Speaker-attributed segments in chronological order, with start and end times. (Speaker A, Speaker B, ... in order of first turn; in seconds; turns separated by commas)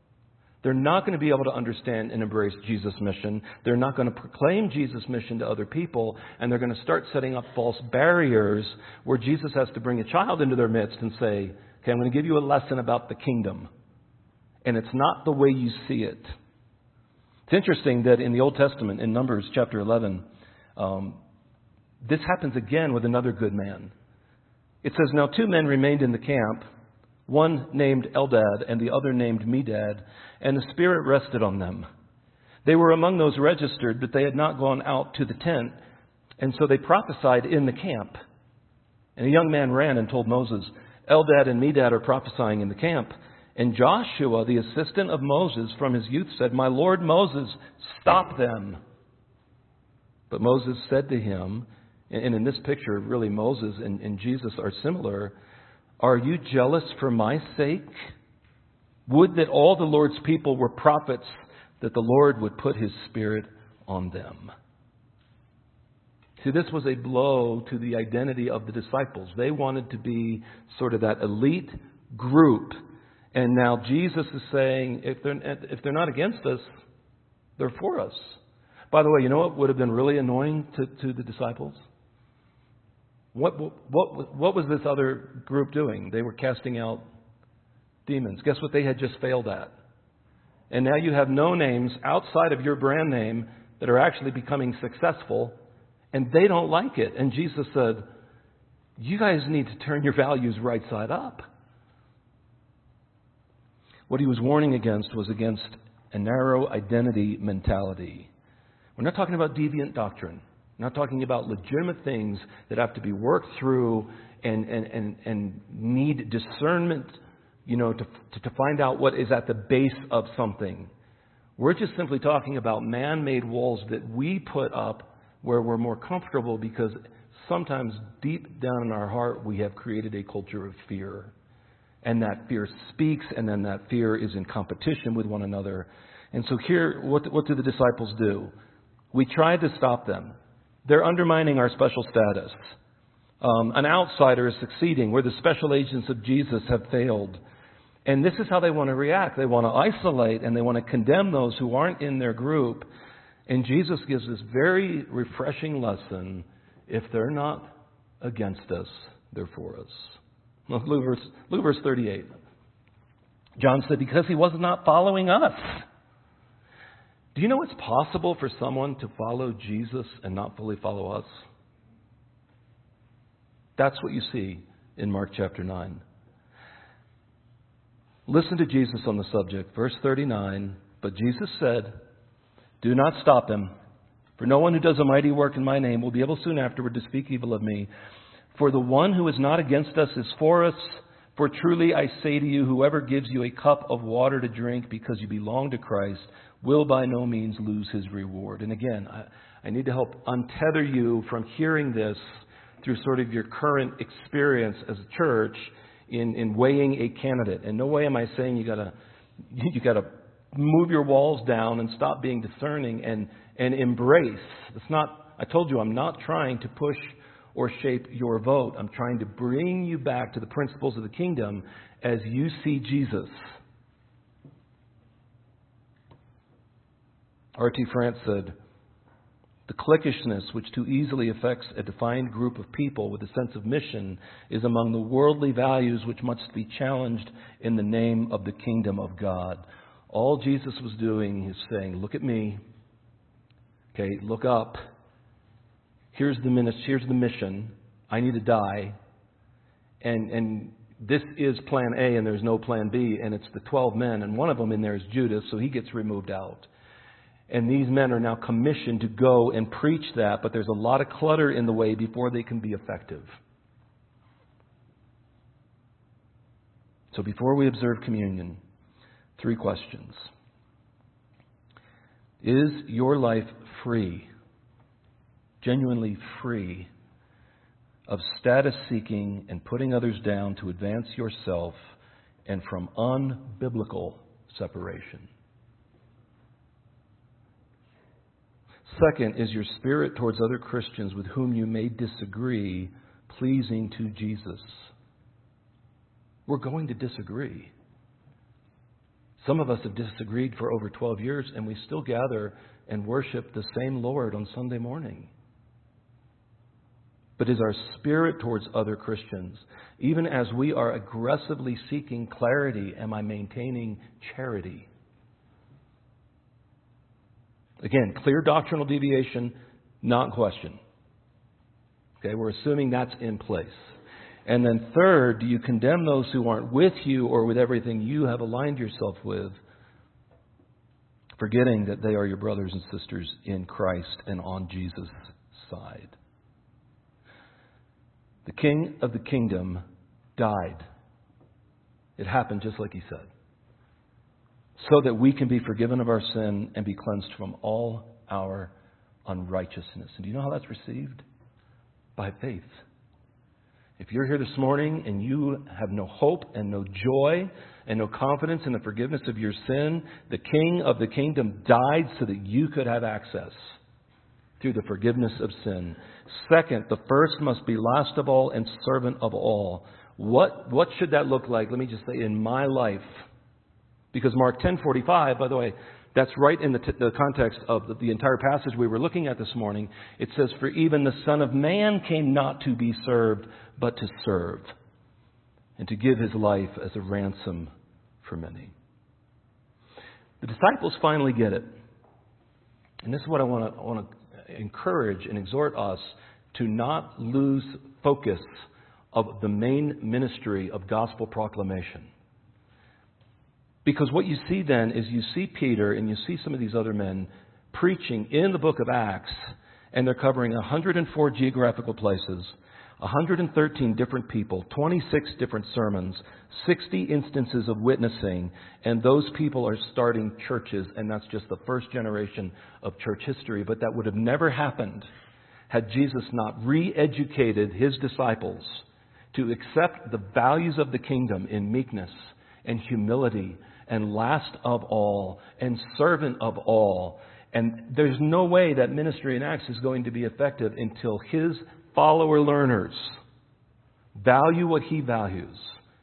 Speaker A: 0.6-13.7, Speaker A: 14.7-16.3, Speaker A: 17.5-20.2, Speaker A: 20.8-21.2, Speaker A: 22.0-23.9, Speaker A: 24.8-26.6, Speaker A: 27.3-31.9, Speaker A: 32.6-35.8, Speaker A: 36.4-38.2, Speaker A: 39.2-48.8, Speaker A: 50.3-55.4, Speaker A: 56.0-57.9, Speaker A: 59.1-64.5, Speaker A: 66.4-72.8, Speaker A: 73.3-76.7, Speaker A: 77.6-78.4, Speaker A: 78.9-81.8, Speaker A: 83.3-87.0, Speaker A: 88.1-89.8, Speaker A: 90.7-95.5, Speaker A: 96.1-98.1, Speaker A: 99.0-101.5, Speaker A: 104.1-108.3, Speaker A: 109.0-120.9, Speaker A: 121.6-131.3, Speaker A: 132.0-138.5, Speaker A: 139.1-140.3, Speaker A: 140.8-142.7, Speaker A: 143.4-147.4, Speaker A: 148.1-152.9, Speaker A: 153.5-162.3, Speaker A: 163.6-165.8, Speaker A: 167.3-171.3, Speaker A: 173.8-176.0, Speaker A: 178.3-181.9, Speaker A: 182.8-183.7, Speaker A: 184.4-187.9, Speaker A: 188.5-202.2, Speaker A: 202.8-208.9, Speaker A: 209.5-223.3, Speaker A: 227.6-228.6, Speaker A: 229.7-242.6, Speaker A: 243.9-244.8, Speaker A: 246.1-248.9, Speaker A: 250.0-256.7, Speaker A: 257.5-263.4, Speaker A: 267.1-268.6, Speaker A: 269.4-270.3, Speaker A: 272.4-274.3, Speaker A: 275.6-276.9, Speaker A: 278.1-281.9, Speaker A: 282.5-285.3, Speaker A: 288.9-294.9, Speaker A: 296.5-297.7, Speaker A: 299.4-305.3, Speaker A: 307.4-314.9, Speaker A: 317.8-320.8, Speaker A: 322.2-323.9, Speaker A: 324.5-329.6, Speaker A: 331.4-336.1, Speaker A: 338.5-339.8, Speaker A: 340.4-340.9, Speaker A: 342.2-343.3, Speaker A: 344.8-348.7, Speaker A: 349.3-351.2, Speaker A: 352.2-352.8, Speaker A: 354.0-363.6, Speaker A: 364.6-373.2, Speaker A: 374.1-384.7, Speaker A: 385.8-387.7, Speaker A: 388.2-388.7, Speaker A: 390.4-391.7, Speaker A: 393.0-402.1, Speaker A: 403.9-425.1, Speaker A: 425.7-443.2, Speaker A: 444.2-445.8